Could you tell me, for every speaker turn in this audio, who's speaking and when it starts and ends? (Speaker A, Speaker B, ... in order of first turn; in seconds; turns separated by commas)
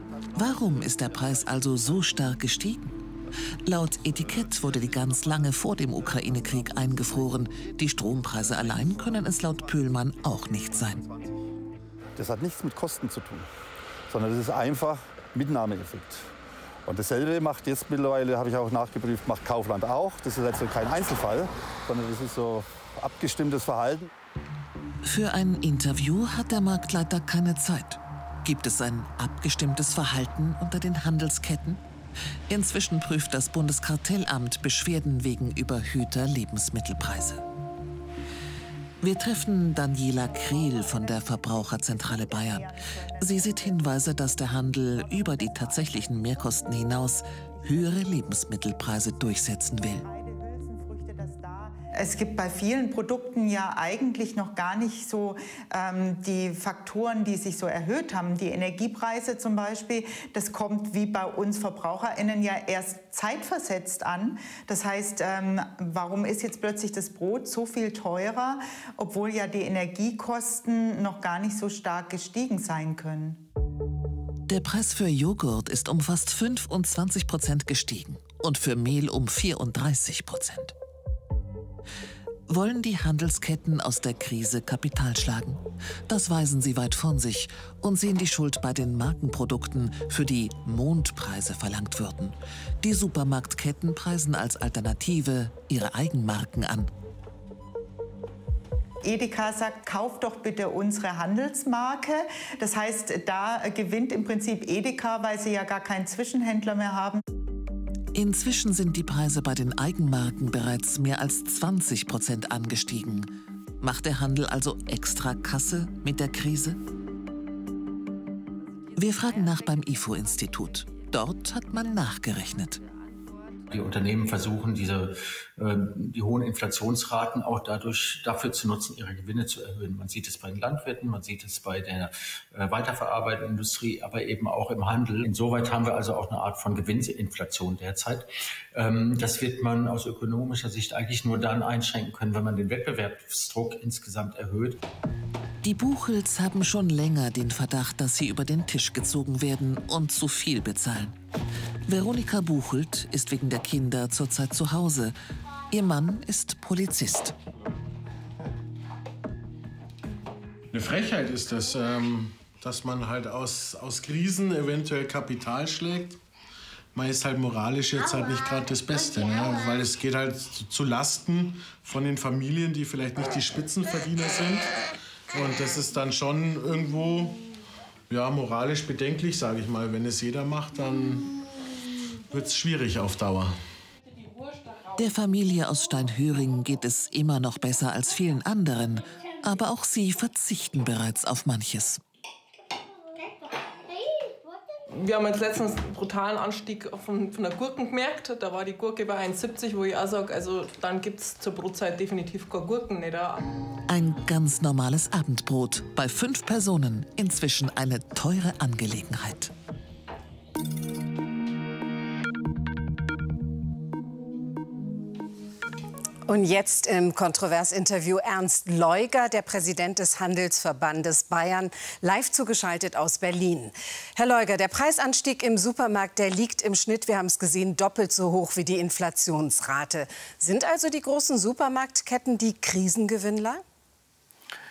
Speaker A: 0.3-2.9, Speaker A: 3.6-11.1, Speaker B: 12.2-13.5, Speaker B: 14.1-16.3, Speaker B: 16.9-24.1, Speaker A: 25.0-31.8, Speaker A: 32.5-37.4, Speaker A: 39.0-50.1, Speaker C: 40.3-46.6, Speaker C: 47.6-48.4, Speaker C: 49.8-73.4, Speaker A: 74.5-80.7, Speaker A: 82.5-96.9, Speaker C: 99.0-107.2, Speaker A: 108.1-116.8, Speaker A: 119.0-122.8, Speaker D: 123.7-144.8, Speaker A: 145.6-151.2, Speaker A: 151.9-155.2, Speaker A: 155.7-157.3, Speaker E: 160.7-166.2, Speaker E: 166.9-174.7, Speaker E: 175.3-177.4, Speaker E: 178.1-181.3, Speaker E: 182.3-183.6, Speaker A: 185.0-192.0, Speaker F: 194.9-203.4, Speaker A: 203.9-209.5, Speaker G: 216.3-233.6